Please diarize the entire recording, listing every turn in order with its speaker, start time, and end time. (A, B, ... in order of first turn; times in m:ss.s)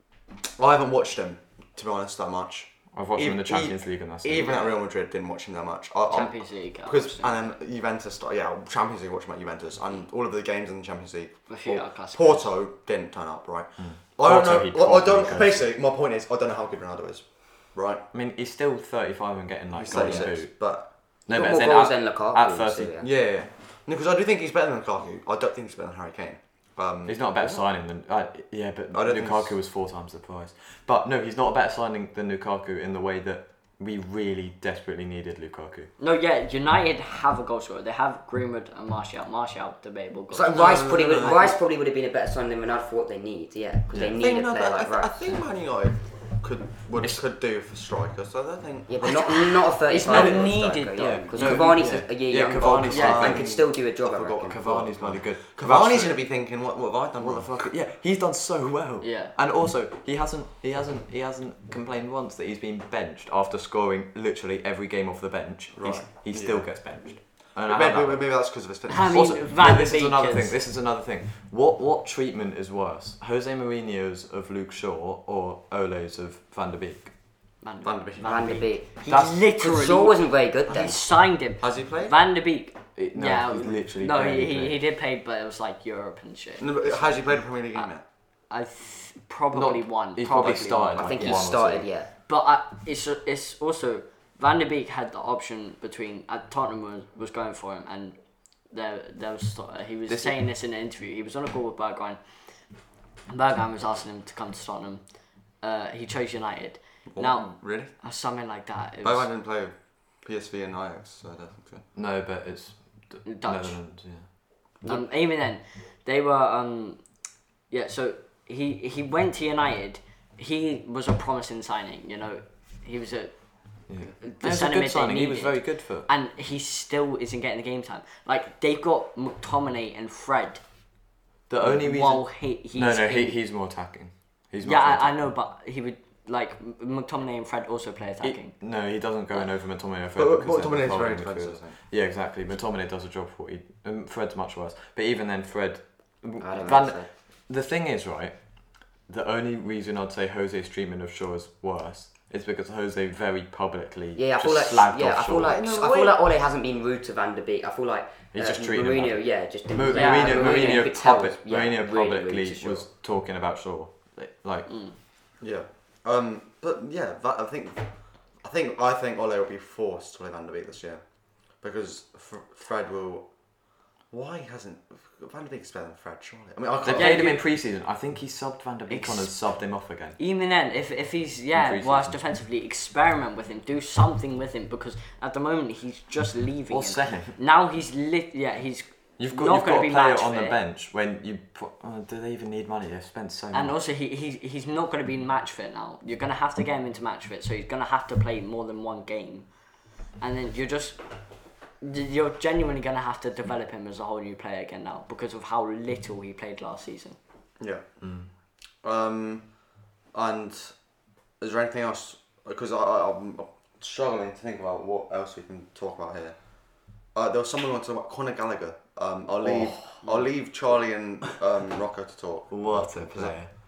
0:00.6-0:18.0 A
0:02.9-0:04.5 B
0:06.1-0:07.5 C
0:11.5-0:12.5 C
0:13.8-0:15.6 B
0:18.1-0:20.5 B
0:19.7-0:20.9 A
0:19.9-0:20.2 D
0:21.3-0:23.3 B
0:21.3-0:23.1 D
0:23.1-0:27.6 A
0:27.1-0:35.9 B
0:28.9-0:29.6 A
0:36.0-0:41.5 C
0:40.3-0:45.4 D
0:40.4-0:41.5 A
0:44.1-0:49.1 A
0:48.9-0:54.6 D
0:49.0-0:51.7 C
0:50.0-0:53.5 B
0:50.1-0:50.5 A
0:52.9-0:57.7 A
0:52.9-0:53.3 C
0:54.5-0:56.2 B
0:57.2-1:08.4 B
0:59.0-0:59.3 C
1:05.8-1:06.7 A
1:07.6-1:09.4 A
1:08.9-1:10.6 C
1:09.1-1:17.1 B
1:17.6-1:18.1 C
1:17.8-1:18.7 A
1:18.2-1:21.0 D
1:19.1-1:27.9 C
1:19.1-1:19.4 B
1:21.6-1:22.1 A
1:23.0-1:24.8 B
1:26.6-1:28.0 A
1:28.5-1:31.4 C
1:29.5-1:31.9 B
1:31.0-1:32.1 D
1:32.3-1:38.2 C
1:38.7-1:42.2 C
1:40.1-1:40.4 B
1:43.3-1:45.0 C
1:45.6-1:49.3 C
1:47.1-1:47.9 A
1:49.0-1:51.8 A
1:52.0-1:54.3 B
1:53.2-1:53.8 C
1:54.8-1:57.1 C
1:57.7-2:03.4 C
2:03.9-2:06.1 B
2:04.2-2:10.6 C
2:11.5-2:15.3 B
2:11.7-2:13.4 C
2:14.6-2:18.6 C
2:18.2-2:35.6 B
2:20.2-2:21.8 A
2:26.4-2:27.1 D
2:34.2-2:42.8 D
2:35.4-2:36.2 A
2:38.3-2:44.8 B
2:39.9-2:40.8 C
2:44.7-2:45.0 C
2:45.4-2:47.9 A
2:48.4-2:51.0 A
2:51.6-2:53.3 A
2:54.1-2:57.4 A
2:56.8-3:00.2 B
2:56.9-2:57.4 C
2:58.9-2:59.3 C
3:00.2-3:10.6 C
3:01.5-3:02.2 B
3:06.7-3:07.3 B
3:09.2-3:13.8 B
3:13.5-3:19.5 C
3:20.2-3:21.0 C
3:21.8-3:27.2 C
3:27.6-3:28.0 A
3:28.0-3:28.3 B
3:28.8-3:29.5 A
3:30.1-3:30.8 A
3:31.4-3:36.4 A
3:37.1-3:43.4 A
3:39.4-3:40.1 B
3:42.5-3:43.5 B